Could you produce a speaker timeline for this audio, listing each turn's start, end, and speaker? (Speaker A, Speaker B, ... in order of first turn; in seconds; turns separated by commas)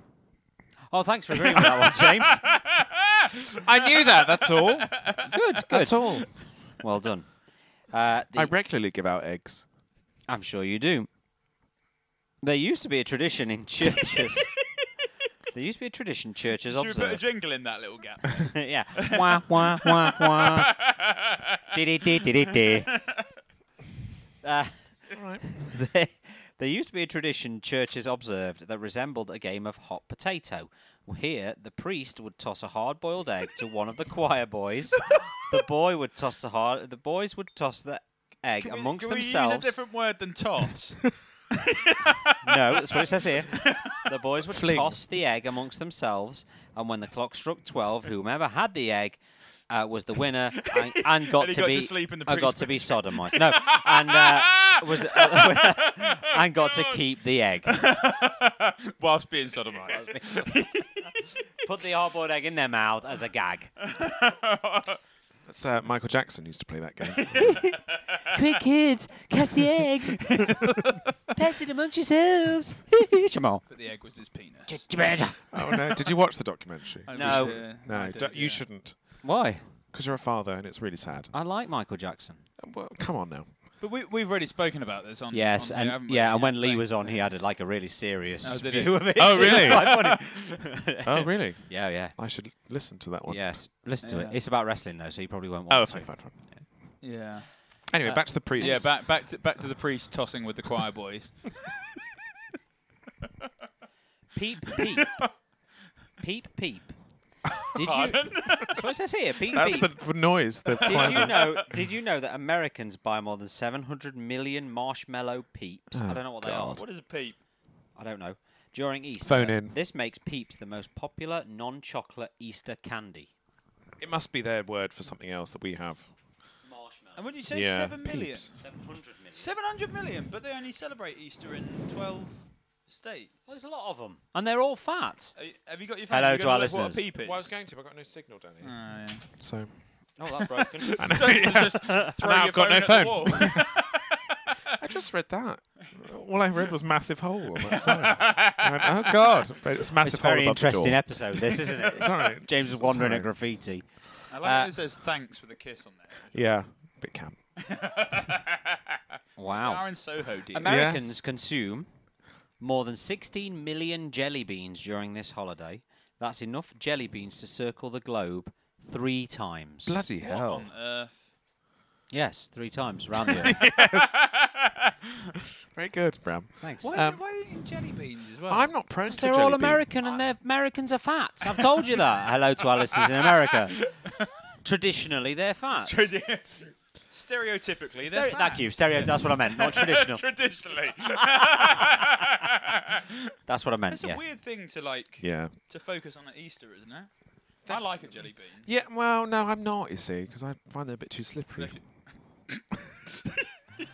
Speaker A: 0.9-2.5, Speaker B: 2.5-5.2, Speaker C: 3.6-5.2, Speaker A: 5.2-8.5, Speaker C: 5.7-6.3, Speaker C: 8.3-9.6, Speaker A: 10.3-11.1, Speaker A: 12.4-14.5, Speaker A: 15.5-17.2, Speaker B: 16.6-23.3, Speaker A: 18.5-20.7, Speaker A: 21.7-22.9, Speaker A: 24.4-39.7, Speaker C: 25.1-25.5, Speaker B: 38.6-44.0, Speaker A: 42.4-57.8, Speaker C: 44.5-45.0, Speaker B: 50.6-57.0, Speaker B: 57.7-61.1, Speaker A: 59.9-63.7, Speaker B: 63.8-65.0, Speaker C: 65.5-67.6, Speaker B: 67.2-68.3, Speaker A: 67.4-73.7, Speaker B: 73.7-75.0, Speaker A: 74.7-75.7, Speaker C: 75.5-79.2, Speaker B: 77.0-78.6, Speaker A: 77.1-77.7, Speaker A: 79.2-79.6, Speaker C: 79.9-81.3, Speaker A: 81.3-82.5, Speaker C: 82.6-83.5, Speaker B: 83.8-87.3, Speaker A: 85.3-92.1, Speaker B: 88.4-90.3, Speaker C: 89.2-90.0, Speaker C: 91.0-93.6, Speaker A: 93.3-96.6, Speaker B: 94.0-94.4, Speaker C: 95.7-96.4, Speaker B: 97.0-97.9, Speaker C: 97.9-98.9, Speaker A: 98.0-98.9, Speaker B: 98.5-101.7, Speaker A: 104.3-105.4, Speaker B: 104.8-105.3, Speaker A: 106.2-107.0, Speaker A: 107.6-109.9, Speaker B: 107.7-108.8, Speaker C: 109.5-111.7, Speaker B: 110.7-111.6, Speaker A: 110.8-116.8, Speaker C: 115.9-116.8, Speaker B: 116.5-117.4, Speaker A: 118.0-123.3, Speaker C: 119.2-119.7, Speaker C: 124.0-126.1, Speaker A: 126.6-127.3, Speaker B: 127.2-128.6, Speaker C: 127.5-128.5, Speaker A: 128.5-129.5, Speaker B: 129.3-133.4, Speaker A: 133.5-135.3, Speaker B: 135.3-137.5, Speaker A: 136.1-137.0, Speaker C: 137.2-140.2, Speaker B: 138.6-139.3, Speaker A: 140.2-142.1, Speaker B: 140.8-144.2, Speaker C: 141.0-143.9, Speaker C: 144.7-153.3, Speaker B: 147.6-149.4, Speaker A: 150.0-154.7, Speaker B: 154.3-156.4, Speaker C: 156.3-157.4, Speaker B: 157.6-160.7, Speaker A: 159.4-159.9, Speaker A: 160.5-161.9, Speaker C: 160.6-161.2, Speaker A: 162.6-169.9, Speaker C: 169.8-170.7, Speaker B: 170.2-171.3, Speaker A: 172.1-173.6, Speaker C: 173.4-174.2, Speaker B: 173.5-174.9, Speaker C: 175.7-177.2, Speaker A: 176.6-176.9, Speaker B: 176.8-178.7, Speaker C: 178.5-179.8, Speaker A: 179.0-183.8, Speaker B: 181.6-182.0, Speaker B: 182.9-184.3, Speaker A: 184.6-186.1, Speaker B: 185.8-193.0, Speaker A: 188.0-190.3, Speaker A: 193.4-194.2, Speaker B: 193.9-198.7, Speaker C: 195.2-195.5, Speaker C: 197.7-201.8, Speaker B: 201.6-202.6